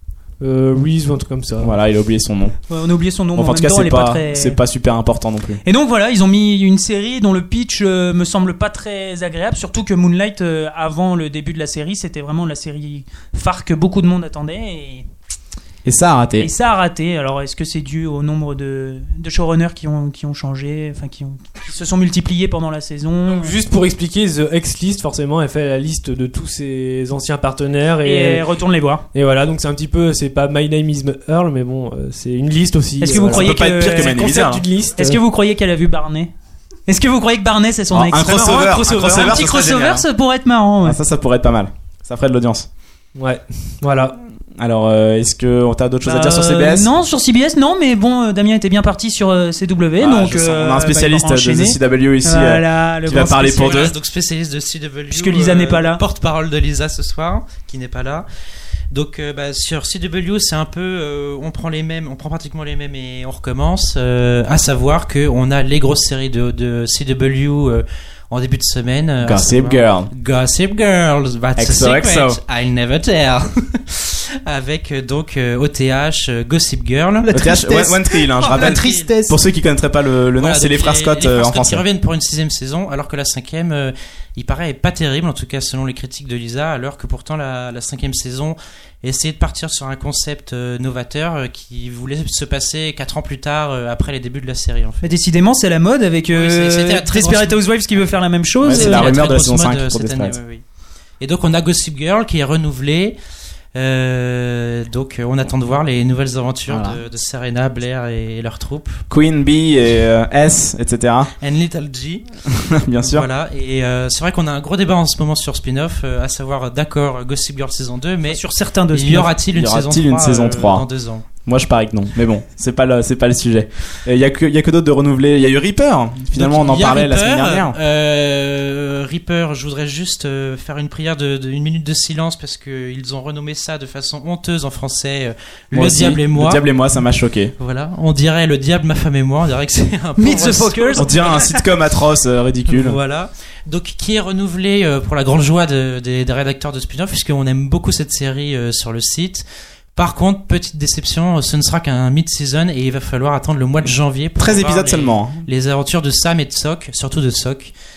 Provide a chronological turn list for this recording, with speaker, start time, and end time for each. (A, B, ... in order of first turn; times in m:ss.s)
0:00.4-0:01.8 A
0:01.6-0:02.6 B
0:02.7-0:04.6 C
0:03.4-0:05.6 B
0:05.6-0:15.0 C
0:15.8-0:16.5 B
0:16.4-0:23.5 C
0:23.3-0:28.4 A
0:28.0-0:29.0 C
0:29.1-0:35.2 A
0:33.0-0:34.3 C
0:33.1-0:34.6 B
0:35.0-0:36.3 C
0:36.8-0:41.0 C
0:37.9-0:40.0 B
0:38.2-0:39.4 A
0:40.8-0:42.7 B
0:43.1-0:44.2 A
0:44.6-0:46.9 B
0:46.0-0:53.8 C
0:50.0-0:53.9 B
0:53.5-0:58.2 D
0:55.1-0:56.0 C
0:58.9-1:17.3 D
1:09.2-1:10.1 B
1:11.6-1:12.4 B
1:17.2-1:19.4 C
1:17.3-1:21.8 B
1:18.4-1:19.1 D
1:20.4-1:35.0 D
1:35.0-1:39.1 C
1:36.3-1:37.6 D
1:38.6-1:40.4 B
1:38.6-1:40.6 D
1:41.2-1:43.2 D
1:43.7-1:49.0 D
1:46.7-1:47.0 B
1:49.1-1:51.3 B
1:51.4-1:52.2 D
1:52.5-1:53.2 B
1:53.0-2:01.2 D
1:58.3-1:59.3 C
1:59.5-2:00.8 B
2:01.4-2:07.8 B
2:06.3-2:16.6 D
2:15.7-2:17.5 B
2:17.6-2:21.5 D
2:20.2-2:21.5 C
2:21.0-2:23.0 B
2:22.7-2:29.4 D
2:29.9-2:37.7 D
2:34.4-2:35.4 B